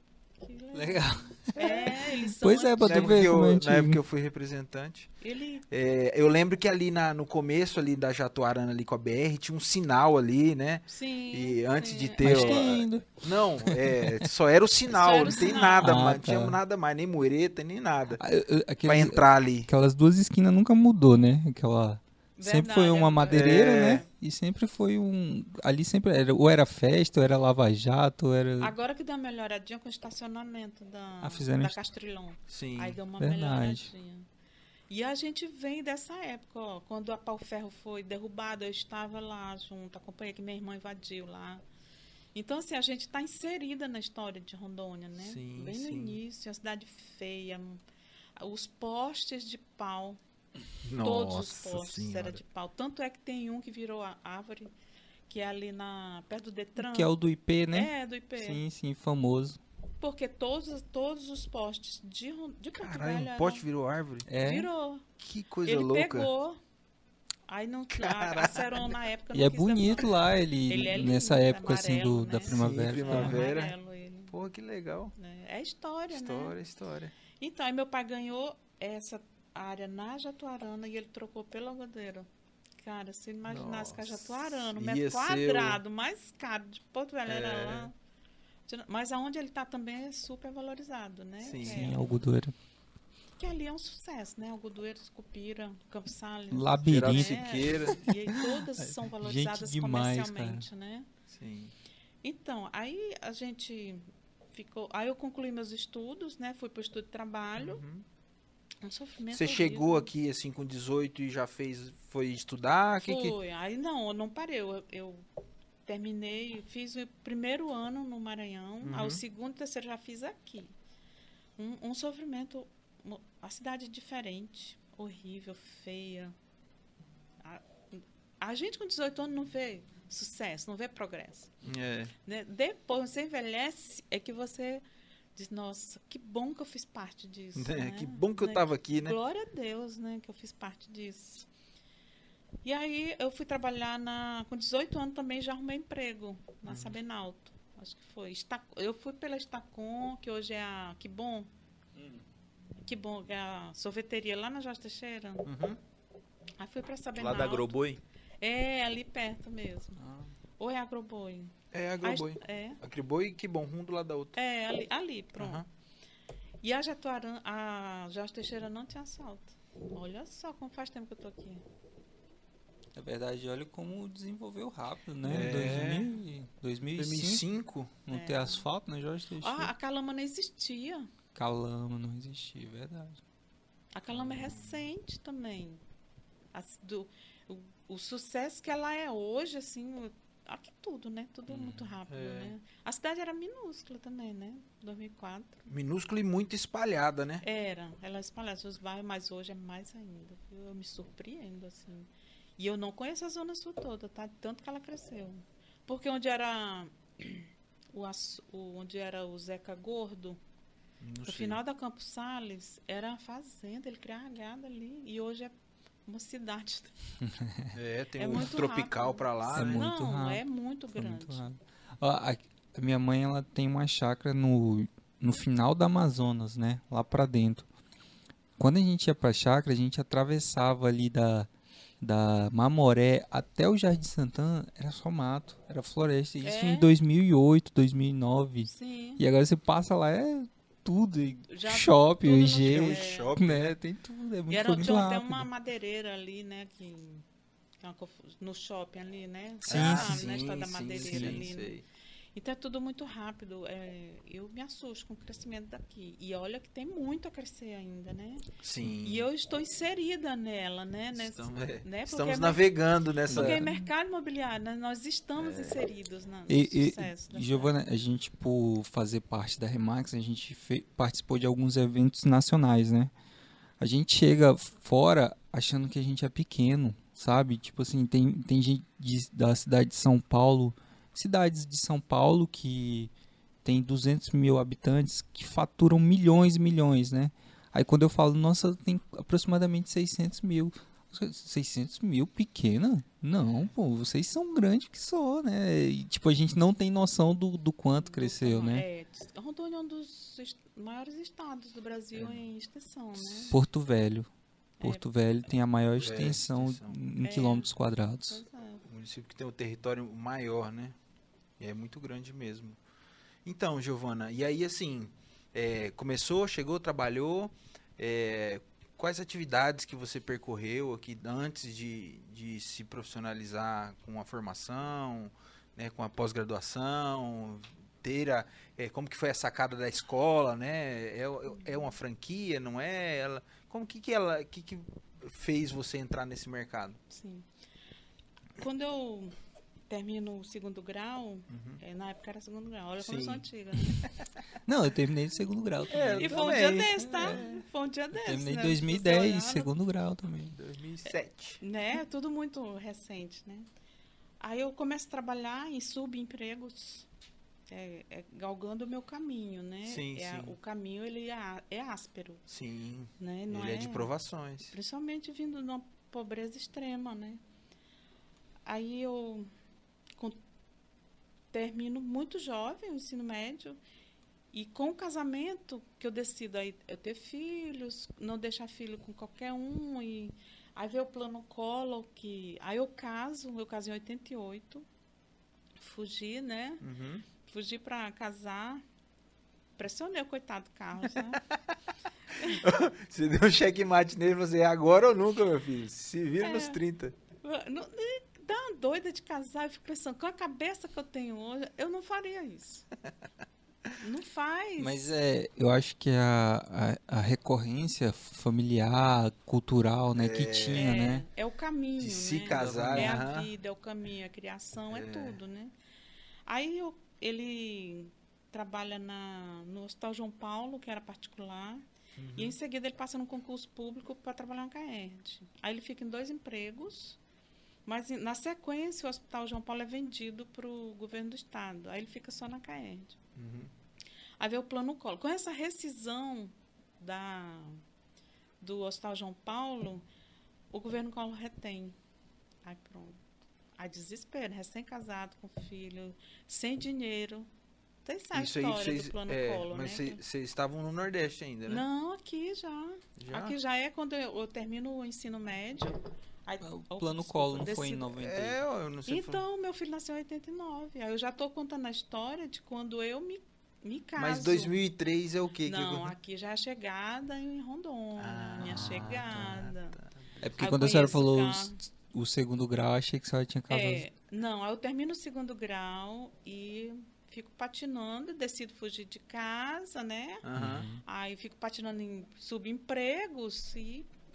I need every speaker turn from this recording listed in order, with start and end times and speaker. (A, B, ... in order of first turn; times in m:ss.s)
0:00.4-0:03.3 A
0:00.7-0:04.0 B
0:02.8-0:05.1 C
0:05.2-0:05.6 A
0:05.7-0:18.2 C
0:10.9-0:12.8 A
0:12.2-0:14.3 B
0:14.9-0:16.0 A
0:15.3-0:16.6 B
0:18.2-0:28.7 B
0:18.8-0:19.7 C
0:22.4-0:24.1 A
0:23.3-0:24.0 C
0:28.6-0:34.2 A
0:31.2-0:31.8 B
0:32.5-0:33.0 C
0:33.2-0:33.9 B
0:34.9-0:41.6 A
0:42.3-0:47.8 A
0:45.2-0:46.2 C
0:48.4-0:50.2 A
0:50.8-0:52.4 C
0:51.0-0:54.7 A
0:55.3-0:57.1 A
0:56.8-0:59.6 B
0:57.7-0:58.6 A
1:00.0-1:03.6 A
1:02.8-1:04.3 C
1:04.3-1:04.7 B
1:04.4-1:05.0 A
1:05.2-1:06.3 C
1:05.6-1:06.6 A
1:07.5-1:14.3 A
1:07.9-1:08.8 C
1:09.3-1:13.4 B
1:12.5-1:13.7 C
1:14.3-1:15.1 C
1:15.2-1:16.6 A
1:16.1-1:17.1 C
1:17.4-1:22.3 A
1:22.8-1:27.9 A
1:23.5-1:25.8 C
1:27.2-1:27.9 C
1:28.7-1:32.1 A
1:31.4-1:31.9 C
1:31.6-1:32.5 B
1:33.4-1:41.1 A
1:36.5-1:40.6 B
1:36.8-1:38.0 C
1:41.3-1:41.7 C
1:42.2-1:47.8 A
1:47.6-1:48.0 C
1:48.8-1:50.1 A
1:49.3-1:53.4 C
1:53.0-1:55.3 A
1:55.8-2:00.7 A
1:58.8-1:59.2 C
2:01.6-2:06.3 A
2:07.4-2:11.5 A
2:11.6-2:12.1 C
2:12.2-2:14.8 A
2:15.3-2:21.5 A
2:17.6-2:19.2 C
2:22.6-2:31.5 A
2:26.6-2:27.0 C
2:32.0-2:32.2 B
2:32.8-2:35.5 A
2:35.4-2:35.8 C
2:36.6-2:37.7 A
2:37.1-2:38.0 C
2:38.4-2:40.0 A
2:40.0-2:40.3 B
2:40.6-2:42.8 A
2:41.7-2:44.4 C
2:44.3-2:45.6 A
2:45.4-2:45.7 C
2:46.6-2:51.6 A
2:52.9-2:57.4 B
2:55.2-2:56.1 C
2:57.0-2:58.0 C
2:58.0-2:59.7 B
2:58.1-2:58.6 A
2:59.4-3:01.1 A
3:01.3-3:03.2 B
3:03.9-3:05.8 A
3:04.1-3:04.8 C
3:06.5-3:15.7 A
3:11.5-3:11.8 B
3:12.1-3:12.5 C
3:15.7-3:17.4 C
3:17.4-3:30.4 A
3:31.0-3:31.6 C
3:31.2-3:35.5 A
3:36.0-3:36.9 A
3:37.2-3:37.7 B
3:37.7-3:39.8 C
3:38.2-3:41.4 A
3:39.5-3:40.4 B
3:40.9-3:47.7 B
3:48.6-3:51.5 B
3:52.0-4:05.5 B
3:56.4-3:56.9 A
3:58.6-3:59.2 A
4:01.5-4:03.3 A
4:02.6-4:03.8 C
4:04.5-4:07.2 A
4:07.8-4:11.7 A
4:09.6-4:11.8 C
4:09.6-4:10.2 B
4:10.9-4:11.4 B
4:12.3-4:18.4 A
4:18.6-4:19.3 C
4:19.0-4:22.7 A
4:21.1-4:23.7 C
4:23.3-4:27.7 A
4:23.3-4:23.8 B
4:25.4-4:25.8 C
4:26.5-4:33.1 B
4:33.8-4:43.1 B
4:43.6-4:58.8 B
4:53.4-4:53.7 C
4:58.0-5:03.6 A
5:02.1-5:02.4 C
5:03.2-5:03.6 C
5:03.5-5:04.3 B
5:04.8-5:08.4 B
5:06.0-5:07.0 C
5:07.2-5:07.7 A
5:08.3-5:08.8 A
5:08.8-5:11.0 C
5:11.6-5:12.8 C
5:13.4-5:37.0 C
5:31.5-5:31.9 A
5:37.1-5:37.5 A
5:38.6-5:39.4 A
5:39.9-5:44.0 A
5:41.5-5:41.8 C
5:43.0-5:43.4 C
5:44.6-5:47.4 B
5:45.9-5:47.6 C
5:46.2-5:49.7 A
5:48.1-5:50.6 B
5:50.5-5:51.6 C
5:51.0-5:53.7 A
5:54.4-5:57.1 A
5:57.7-6:02.4 A
5:59.8-6:00.6 C
6:02.5-6:04.7 C
6:03.2-6:04.1 A
6:04.6-6:07.4 A
6:08.6-6:09.5 A
6:11.5-6:13.8 A
6:14.5-6:24.8 A
6:25.8-6:26.9 A
6:26.8-6:27.2 C
6:27.4-6:28.8 A
6:29.8-6:31.4 A
6:31.2-6:31.6 C
6:32.3-6:32.6 A
6:32.4-6:37.2 C
6:36.4-6:36.8 A
6:37.4-6:42.9 A
6:44.0-6:45.1 A
6:44.8-6:51.3 B
6:50.2-6:50.8 C
6:50.7-6:55.7 A
6:52.0-6:53.5 C
6:52.5-6:53.2 B
6:54.9-6:55.4 C
6:56.5-7:07.2 A
7:02.2-7:02.6 C
7:07.8-7:13.2 A
7:13.4-7:13.7 C
7:14.4-7:17.8 A
7:18.6-7:20.0 A
7:20.7-7:22.0 A
7:22.6-7:23.2 A
7:23.8-7:27.5 A
7:28.0-7:30.2 A
7:28.3-7:31.8 C
7:31.7-7:38.1 A
7:33.2-7:33.6 C
7:36.6-7:38.6 B
7:38.1-7:39.4 C
7:39.0-7:44.8 A
7:44.2-7:46.1 C
7:45.6-7:50.0 A
7:48.2-7:50.5 C
7:50.4-7:54.0 B
7:50.6-7:51.8 A
7:53.7-8:00.4 A
8:00.4-8:00.9 C
8:00.5-8:01.0 B
8:01.0-8:04.1 A